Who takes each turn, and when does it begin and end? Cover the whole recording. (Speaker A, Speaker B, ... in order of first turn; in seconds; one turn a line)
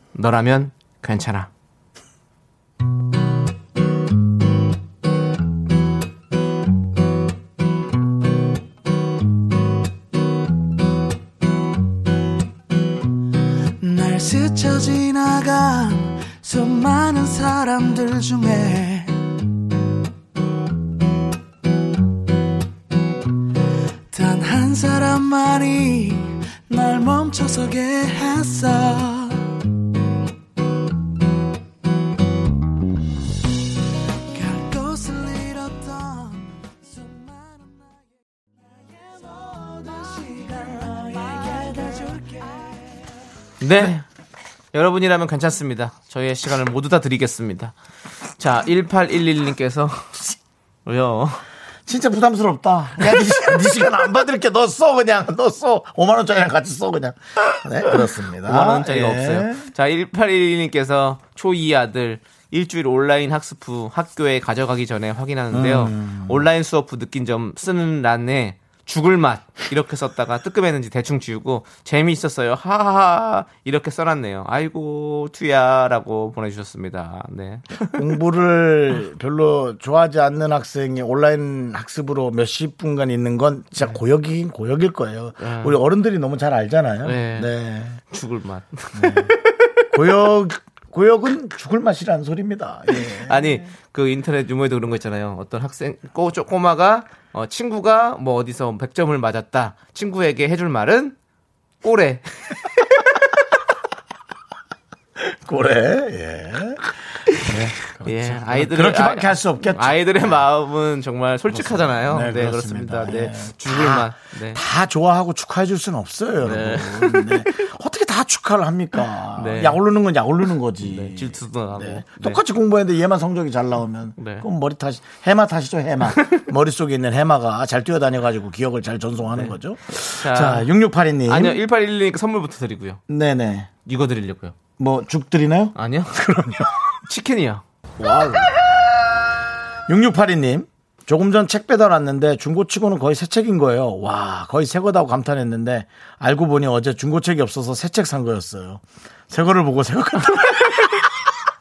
Speaker A: 0.1-1.5
Speaker B: 13.8-19.2
Speaker B: 24.1-29.5
Speaker B: 34.3-38.0
Speaker B: 38.8-42.9
Speaker A: 43.6-44.1
Speaker A: 44.7-47.7
Speaker A: 48.4-50.2
Speaker A: 50.9-51.4
Speaker C: 51.9-59.7
Speaker A: 58.5-78.1
Speaker C: 65.5-66.5
Speaker C: 77.9-88.0
Speaker A: 85.4-85.8
Speaker A: 87.0-87.5
Speaker A: 88.1-89.6
Speaker C: 89.0-89.3
Speaker C: 89.9-93.6
Speaker A: 93.2-101.2
Speaker A: 101.8-103.3
Speaker C: 105.2-110.4
Speaker A: 108.0-114.6
Speaker C: 111.5-131.6
Speaker A: 116.4-117.4
Speaker A: 119.4-119.8
Speaker A: 120.8-122.4
Speaker A: 124.2-124.5
Speaker A: 126.2-126.4
Speaker A: 130.2-130.7
Speaker A: 131.3-133.0
Speaker C: 133.1-133.7
Speaker A: 133.9-134.6
Speaker C: 134.8-136.8
Speaker A: 135.8-136.2
Speaker A: 137.1-137.6
Speaker C: 138.0-138.7
Speaker C: 139.9-151.3